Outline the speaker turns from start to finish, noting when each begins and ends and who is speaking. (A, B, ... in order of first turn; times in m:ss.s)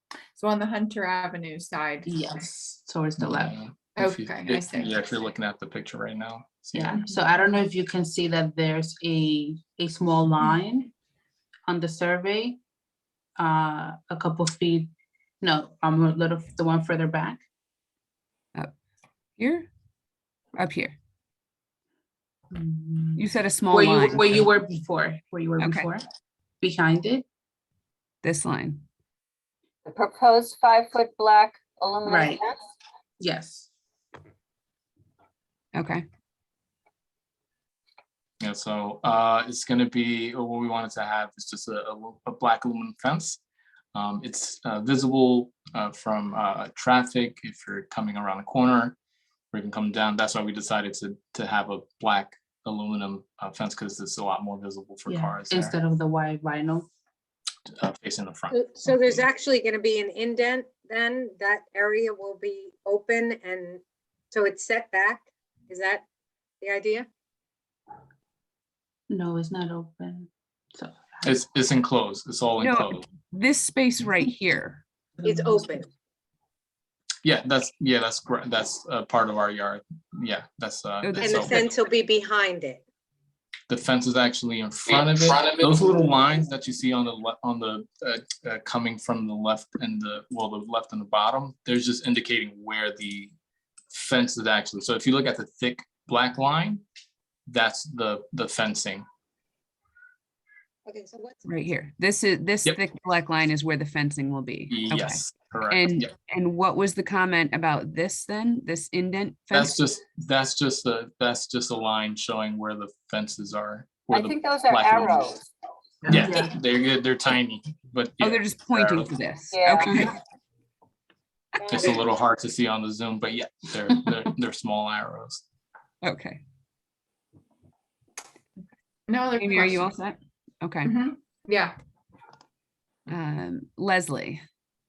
0:00.4-0:02.1 A
0:02.0-0:03.6 B
0:03.2-0:07.0 C
0:03.9-0:05.1 A
0:06.7-0:10.9 B
0:11.7-0:12.6 B
0:13.4-0:17.4 B
0:19.4-0:19.7 D
0:20.6-0:21.0 D
0:22.5-0:26.0 B
0:23.2-0:24.4 D
0:25.6-0:25.9 D
0:26.6-0:27.2 B
0:28.2-0:28.8 D
0:29.8-0:32.6 E
0:32.0-0:32.4 B
0:33.2-0:33.7 B
0:35.7-0:36.0 D
0:38.4-0:43.4 C
0:43.9-0:49.0 C
0:49.5-0:55.8 C
0:55.1-0:56.9 B
0:57.8-0:58.6 C
0:58.5-1:03.8 F
1:04.3-1:06.0 F
1:06.6-1:07.1 F
1:09.1-1:11.3 B
1:11.2-1:13.0 C
1:12.6-1:14.8 D
1:15.2-1:15.9 F
1:17.2-1:21.6 C
1:21.0-1:21.7 D
1:21.2-1:22.8 F
1:23.7-1:33.3 C
1:33.9-1:36.8 C
1:37.5-1:39.0 C
1:40.8-1:41.4 F
1:41.4-1:49.8 D
1:44.7-1:46.1 C
1:49.5-1:55.4 C
1:54.1-1:55.4 E
1:56.1-1:59.1 C
1:56.1-1:56.5 B
1:58.2-2:00.1 D
1:59.5-2:00.0 E
2:01.7-2:05.4 C
2:06.0-2:06.4 D
2:09.1-2:09.9 A
2:09.4-2:10.9 D
2:10.8-2:11.8 A
2:13.1-2:14.4 D